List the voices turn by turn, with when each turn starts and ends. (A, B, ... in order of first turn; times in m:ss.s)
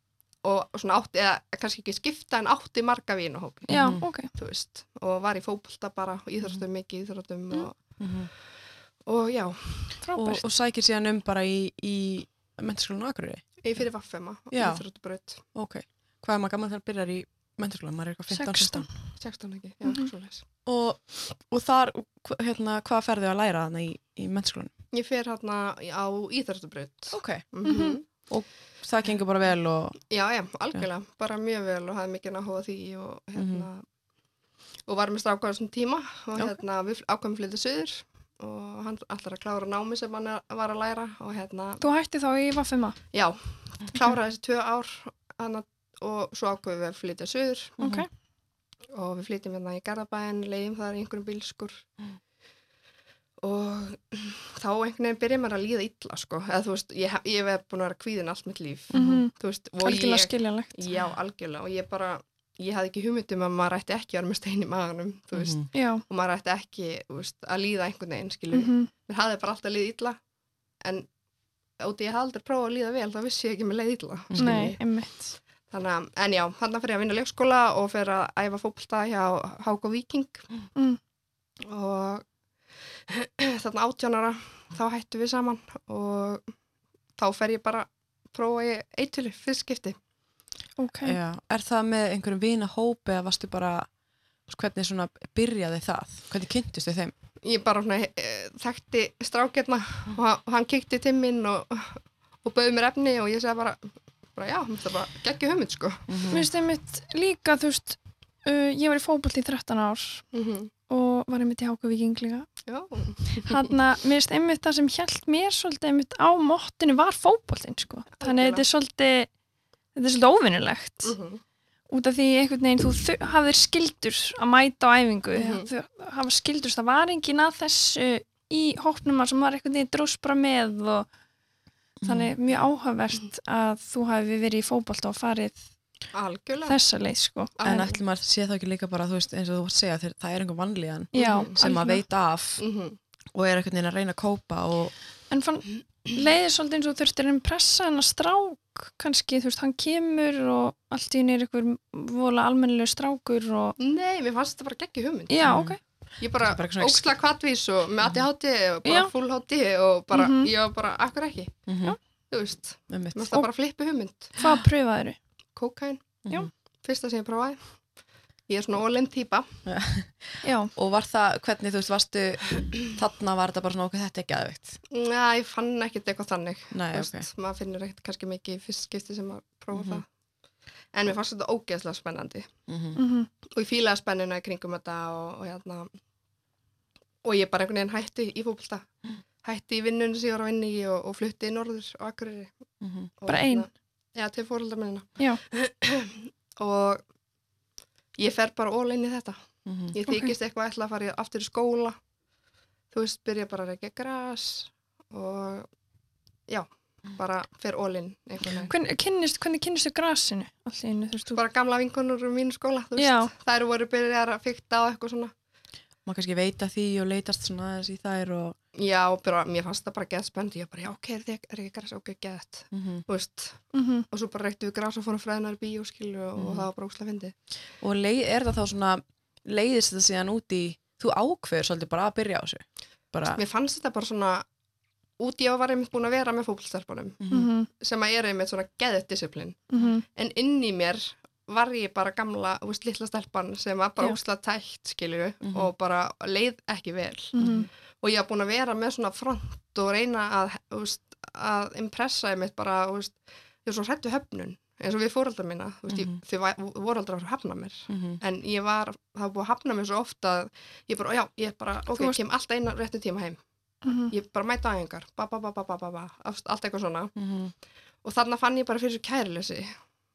0:00.4-0:07.8 A
0:03.7-0:04.0 B
0:03.7-0:04.3 C
0:08.0-0:08.3 B
0:09.0-0:10.0 A
0:10.0-0:10.4 C
0:10.1-0:13.6 B
0:13.6-0:15.4 A
0:14.5-0:14.8 B
0:15.5-0:18.9 B
0:18.3-0:18.9 C
0:19.2-0:20.4 A
0:20.6-0:24.7 B
0:24.9-0:28.0 A
0:27.1-0:27.4 B
0:27.6-0:28.0 C
0:28.3-0:30.0 B
0:30.1-0:33.8 A
0:33.4-0:33.7 B
0:34.8-0:41.8 A
0:41.8-0:43.0 C
0:43.1-0:47.8 A
0:47.8-0:48.0 B
0:47.8-0:48.1 C
0:48.9-0:51.9 A
0:53.4-1:10.2 A
0:58.9-0:59.3 B
0:58.9-1:00.8 C
1:05.3-1:05.6 B
1:05.7-1:06.0 C
1:08.5-1:08.9 C
1:10.8-1:11.1 A
1:11.8-1:14.8 A
1:14.3-1:14.7 B
1:14.4-1:15.3 C
1:15.7-1:20.5 A
1:21.6-1:22.2 A
1:23.1-1:26.5 A
1:27.2-1:30.0 A
1:30.8-1:31.2 C
1:31.0-1:33.9 B
1:34.5-1:37.1 B
1:37.4-1:46.1 A
1:46.1-1:46.5 B
1:46.3-1:50.3 C
1:50.3-1:50.7 A
1:50.9-1:52.5 C
1:52.6-1:53.7 A
1:53.4-1:59.3 C
1:58.2-1:58.6 A
1:59.9-2:01.1 C
2:01.0-2:01.4 A
2:01.9-2:11.1 C
2:05.3-2:05.7 A
2:12.0-2:12.3 B
2:12.0-2:15.6 C
2:16.1-2:16.8 A
2:16.6-2:17.8 C
2:17.6-2:18.0 A
2:17.6-2:22.6 B
2:21.1-2:22.0 C
2:21.1-2:21.6 A
2:22.6-2:23.0 A
2:23.3-2:24.9 B
2:25.3-2:33.8 C
2:33.8-2:35.4 A
2:35.3-2:35.8 C
2:35.4-2:35.8 B
2:36.2-2:41.5 A
2:36.3-2:37.1 B
2:38.8-2:39.1 C
2:40.1-2:40.5 C
2:41.7-2:42.0 B
2:42.3-2:44.4 A
2:42.9-2:43.4 B
2:44.4-2:45.2 C
2:45.6-2:46.1 A
2:46.2-2:46.5 B
2:46.8-2:47.8 A
2:48.5-2:49.6 A
2:49.6-2:54.8 B
2:50.4-2:50.7 C
2:54.9-3:00.1 A
2:56.7-2:57.3 B
2:59.7-3:00.0 B
3:00.9-3:02.5 A
3:02.7-3:03.0 B
3:02.9-3:03.3 C
3:03.5-3:05.9 A
3:07.2-3:08.9 A
3:09.4-3:12.5 A
3:12.8-3:13.1 B
3:13.2-3:17.0 A
3:13.3-3:13.7 C
3:18.2-3:22.0 A
3:19.6-3:20.0 B
3:20.1-3:20.3 C
3:22.9-3:25.7 A
3:26.5-3:28.7 A
3:28.7-3:31.4 C
3:31.3-3:35.3 A
3:33.0-3:33.3 C
3:36.0-3:38.6 B
3:38.7-3:47.3 A
3:42.7-3:43.0 B
3:43.7-3:44.1 C
3:46.4-3:46.7 B
3:47.8-3:53.4 B
3:53.3-3:54.4 A
3:55.2-3:57.2 A
3:57.2-3:57.5 B
3:57.3-3:57.7 C
3:57.7-4:23.4 A
3:59.7-4:00.0 C
4:05.4-4:05.7 B
4:07.3-4:07.7 C
4:07.4-4:07.6 B
4:15.9-4:16.2 B
4:17.9-4:18.2 B
4:21.9-4:22.2 C
4:23.8-4:24.1 C
4:24.1-4:27.1 A
4:27.2-4:27.5 B
4:28.0-4:29.7 A